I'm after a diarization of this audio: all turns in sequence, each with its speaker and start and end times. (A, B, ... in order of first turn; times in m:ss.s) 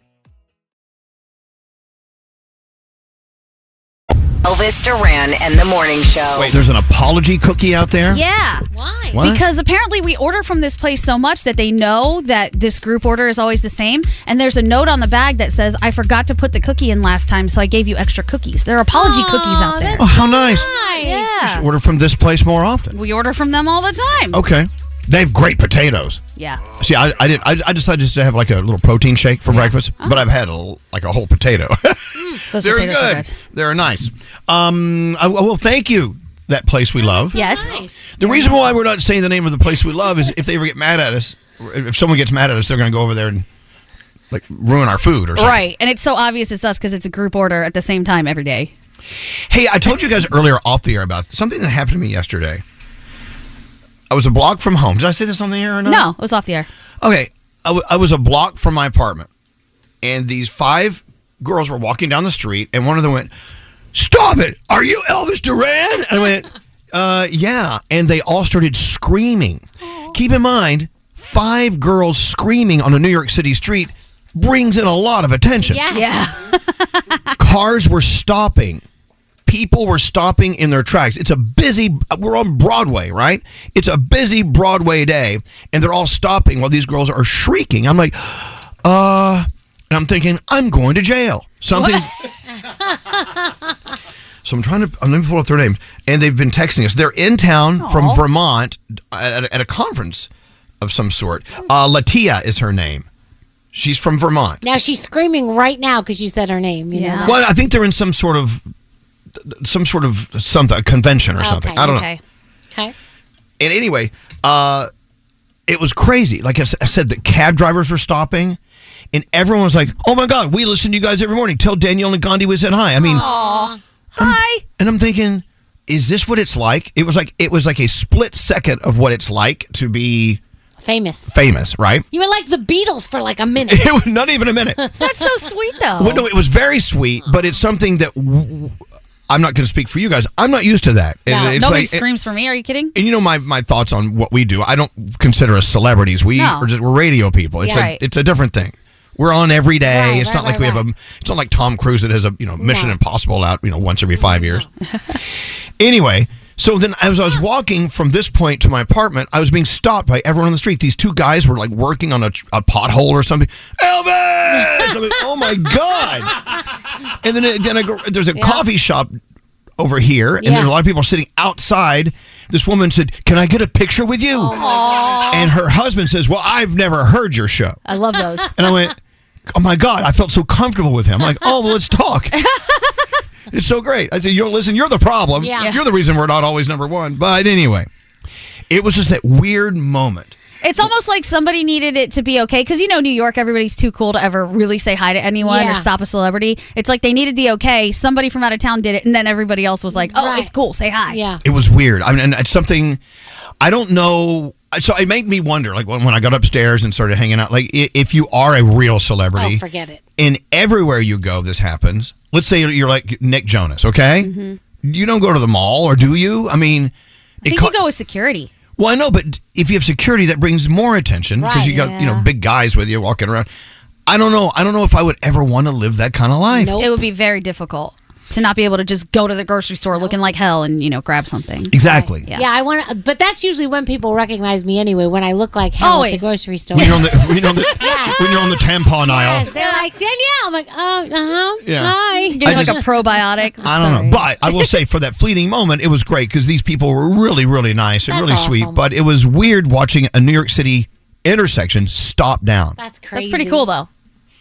0:04.4-0:06.6 A
0:06.4-0:08.2 B
0:08.1-0:08.6 C
0:08.7-0:09.2 D
0:09.1-0:09.4 B
0:09.2-0:20.1 C
0:18.9-0:21.3 D
0:20.0-0:20.8 B
0:20.8-0:21.7 C
0:21.4-0:22.9 B
0:22.9-0:24.4 C
0:24.3-0:26.2 B
0:26.4-0:26.6 C
0:26.8-0:37.4 B
0:29.5-0:30.2 C
0:32.5-0:33.3 C
0:37.0-0:38.6 D
0:37.3-0:37.8 C
0:38.2-0:43.5 B
0:44.3-0:45.6 B
0:45.4-0:48.7 C
0:49.5-0:52.6 B
0:54.1-0:56.1 B
0:55.9-0:56.7 C
0:57.0-0:59.3 B
1:00.0-1:03.3 B
1:03.9-1:15.8 B
1:15.6-1:16.2 D
1:15.9-1:17.4 C
1:17.4-1:18.8 B
1:19.5-1:32.1 B
1:31.7-1:32.0 C
1:33.1-1:33.5 D
1:34.4-1:40.3 B
1:37.8-1:38.2 C
1:40.8-1:43.1 B
1:43.7-1:44.6 B
1:44.6-1:47.4 D
1:46.9-1:47.4 C
1:47.2-1:48.6 B
1:49.4-1:52.1 B
1:51.4-1:51.9 D
1:51.8-1:52.2 C
1:53.6-1:54.9 B
1:55.7-1:58.6 B
1:59.1-2:03.2 B
2:03.0-2:03.8 D
2:03.1-2:04.6 C
2:04.2-2:10.4 B
2:10.8-2:11.4 D
2:11.3-2:12.1 B
2:12.1-2:14.0 D
2:13.7-2:14.8 B
2:14.8-2:15.1 D
2:15.0-2:16.3 C
2:16.0-2:18.8 B
2:19.3-2:22.0 B
2:21.3-2:21.6 D
2:21.4-2:22.9 C
2:23.0-2:34.7 B
2:26.4-2:26.7 C
2:27.6-2:28.0 C
2:29.9-2:30.8 D
2:32.6-2:33.0 D
2:34.2-2:34.6 D
2:35.8-2:46.4 B
2:47.2-2:49.2 B
2:48.4-2:48.6 D
2:49.8-2:54.6 B
2:50.4-2:50.7 D
2:54.4-2:55.3 D
2:54.5-2:55.5 C
2:55.3-2:57.8 B
2:57.9-2:58.5 C
2:58.6-2:59.0 B
2:59.5-3:02.3 B
3:02.4-3:03.0 C
3:03.5-3:07.9 B
3:05.4-3:05.7 D
3:08.7-3:10.4 B
3:10.6-3:21.2 C
3:15.4-3:15.9 D
3:19.9-3:20.5 D
3:21.1-3:21.4 D
3:21.4-3:23.0 B
3:23.6-3:29.6 B
3:29.4-3:30.0 D
3:30.2-3:34.3 B
3:34.2-3:34.6 C
3:34.8-3:36.9 B
3:37.4-3:37.8 B
3:37.4-3:38.5 C
3:38.8-3:43.5 B
3:41.4-3:42.3 D
3:44.1-3:46.8 B
3:46.5-3:47.0 D
3:46.8-3:51.8 C
3:51.7-3:52.3 B
3:51.8-3:57.1 D
3:55.8-3:56.3 C
3:56.7-3:59.5 B
3:57.8-4:02.8 D
3:59.6-3:59.8 C
4:01.6-4:02.8 B
4:02.3-4:04.2 C
4:03.6-4:12.8 B
4:08.1-4:08.8 D
4:12.8-4:13.7 D
4:13.2-4:13.9 C